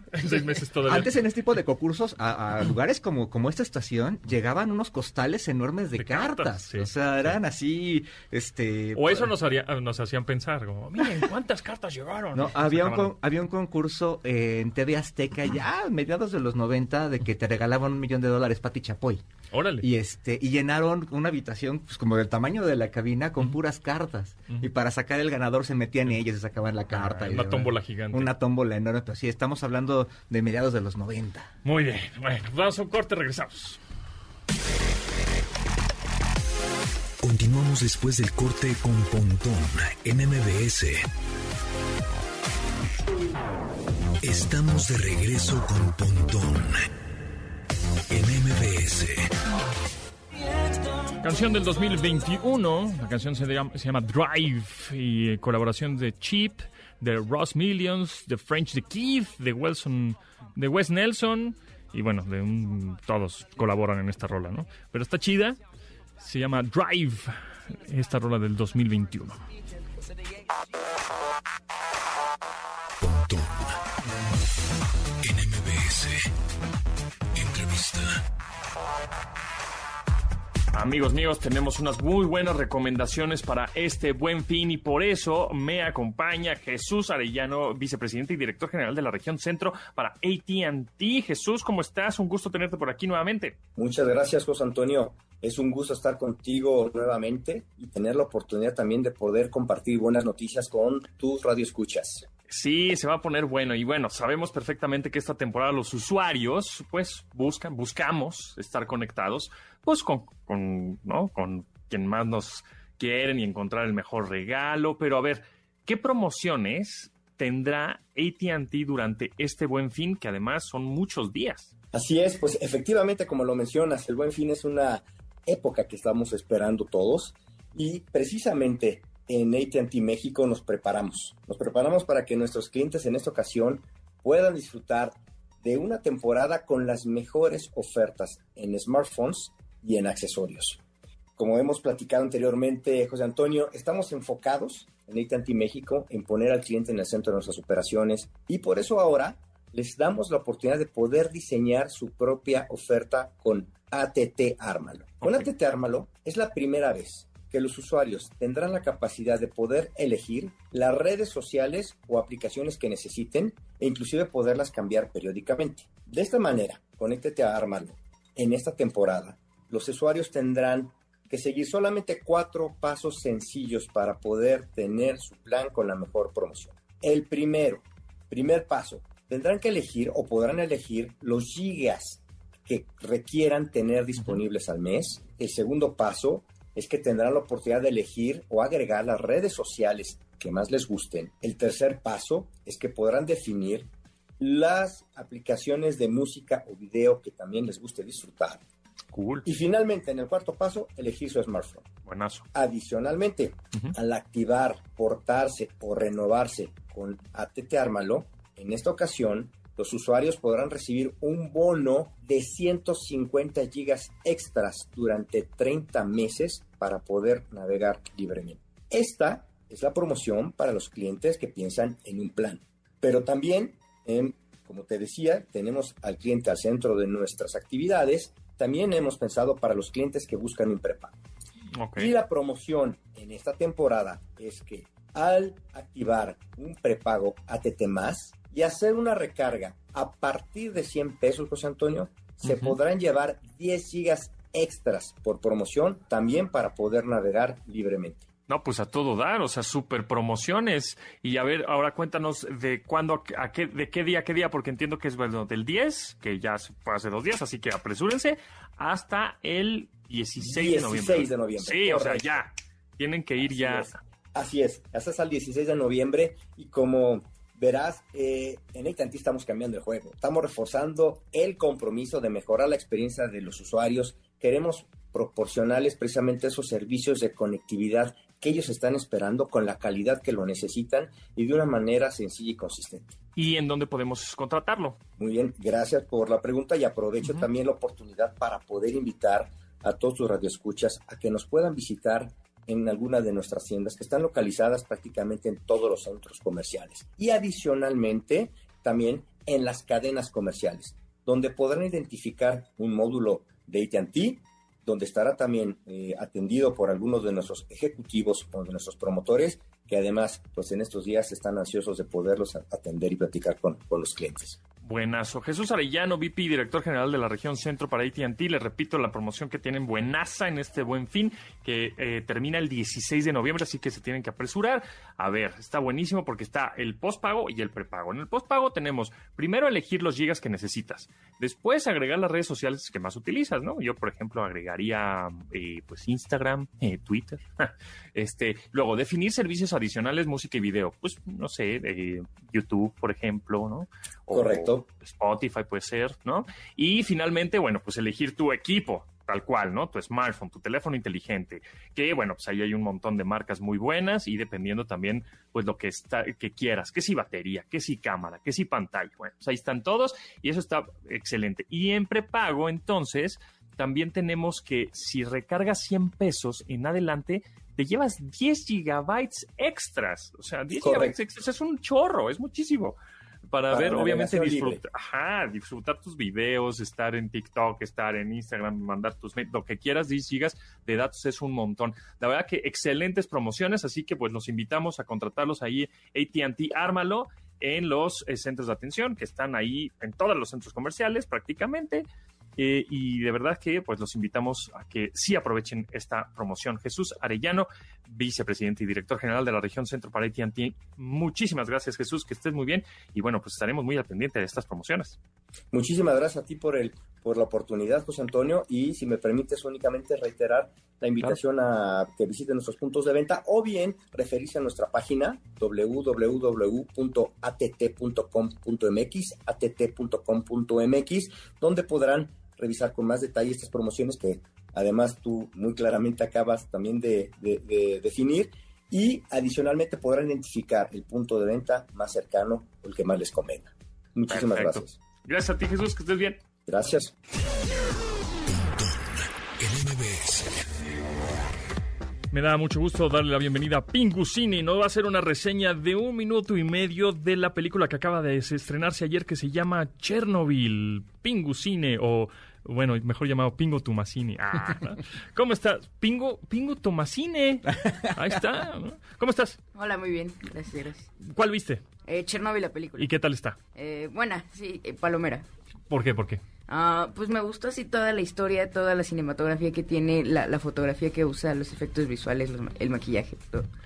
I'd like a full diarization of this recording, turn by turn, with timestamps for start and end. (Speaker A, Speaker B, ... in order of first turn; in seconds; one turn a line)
Speaker A: 0.1-1.1
Speaker B: 0.8-9.3
Speaker A: 6.0-7.3
Speaker A: 8.9-13.1
Speaker B: 12.3-19.2
Speaker A: 19.5-19.9
Speaker B: 19.8-31.5
Speaker A: 26.9-28.3
Speaker A: 31.6-33.8
Speaker C: 37.2-41.0
Speaker C: 44.2-46.9
Speaker C: 48.1-49.3
Speaker A: 51.2-65.6
Speaker A: 66.2-69.4
Speaker C: 73.0-73.8
Speaker C: 75.2-76.3
Speaker C: 77.3-78.2
Speaker A: 80.7-93.6
Speaker D: 93.8-102.3
Speaker A: 102.5-121.7
Speaker D: 121.9-140.8
Speaker D: 141.4-193.9
Speaker D: 194.4-198.6
Speaker A: 199.1-199.5
Speaker D: 199.4-201.8
Speaker A: 202.0-202.5
Speaker D: 202.5-231.1
Speaker A: 231.8-232.1
Speaker D: 231.9-248.2
Speaker A: 248.5-263.9
Speaker D: 260.4-262.3
Speaker D: 263.4-283.1
Speaker A: 283.4-285.0
Speaker D: 285.2-314.6
Speaker A: 314.8-392.0
Speaker D: 344.3-344.8
Speaker D: 370.8-371.2
Speaker D: 373.7-374.8
Speaker A: 392.6-405.2
Speaker D: 405.7-435.0
Speaker A: 434.3-436.4
Speaker D: 436.6-437.1
Speaker C: 438.4-440.6
Speaker A: 442.3-459.6
Speaker E: 459.7-461.1
Speaker A: 461.2-461.8
Speaker E: 462.1-463.1
Speaker A: 463.0-463.6
Speaker E: 463.7-465.4
Speaker A: 465.9-466.4
Speaker E: 466.7-473.6